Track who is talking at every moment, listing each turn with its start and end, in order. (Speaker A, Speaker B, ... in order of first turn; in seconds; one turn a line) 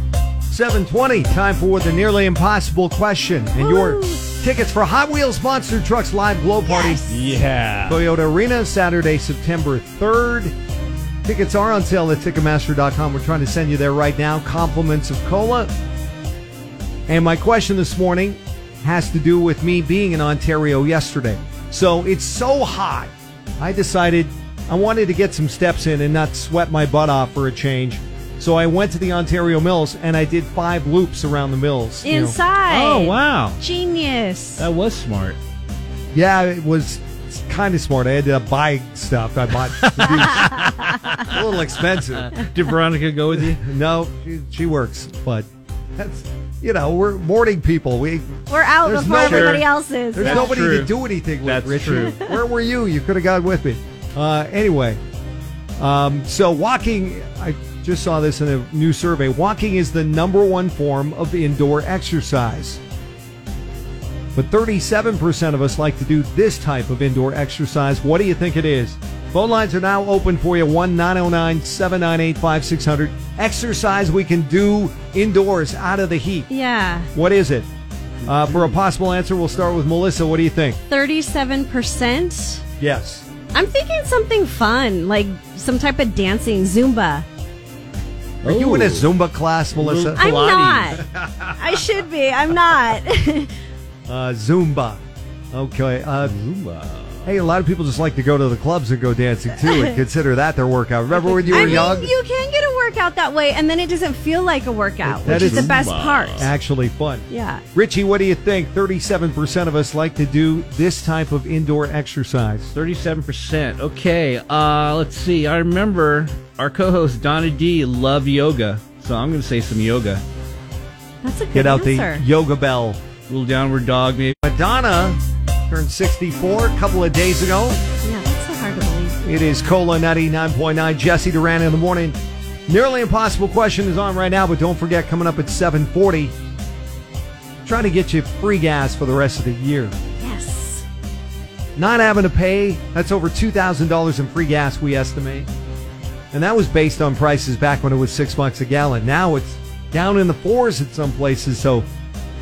Speaker A: 0.5-7.0
Speaker B: 3.6-4.2
Speaker B: 6.6-7.2
Speaker C: 7.1-8.0
Speaker A: 7.9-10.6
Speaker A: 11.2-15.7
Speaker A: 17.1-32.4
Speaker B: 32.0-34.7
Speaker C: 32.7-33.6
Speaker C: 34.6-35.4
Speaker A: 36.1-42.5
Speaker C: 39.8-41.4
Speaker B: 40.4-40.7
Speaker C: 42.2-43.6
Speaker A: 43.5-55.0
Speaker B: 48.5-50.5
Speaker C: 49.2-52.2
Speaker A: 55.8-62.8
Speaker A: 64.4-76.5
Speaker B: 76.5-77.1
Speaker A: 77.1-77.7
Speaker C: 78.2-78.8
Speaker A: 78.3-80.8
Speaker B: 80.9-82.6
Speaker A: 82.8-83.3
Speaker B: 83.5-87.3
Speaker C: 88.4-89.1
Speaker A: 88.4-90.2
Speaker C: 89.8-91.0
Speaker B: 90.1-91.0
Speaker A: 91.0-91.8
Speaker B: 91.6-93.5
Speaker A: 94.1-96.4
Speaker C: 96.2-97.3
Speaker A: 97.2-102.1
Speaker B: 99.7-100.0
Speaker B: 101.1-106.5
Speaker C: 101.5-101.9
Speaker A: 105.1-105.8
Speaker C: 105.2-106.5
Speaker A: 106.4-112.7
Speaker B: 107.3-107.6
Speaker C: 112.7-120.2
Speaker B: 121.2-122.2
Speaker A: 121.5-123.0
Speaker C: 123.3-124.4
Speaker A: 124.4-127.8
Speaker B: 128.0-129.2
Speaker A: 129.2-132.2
Speaker A: 132.7-136.3
Speaker A: 137.7-139.9
Speaker B: 140.2-140.8
Speaker A: 141.8-145.5
Speaker A: 146.3-151.9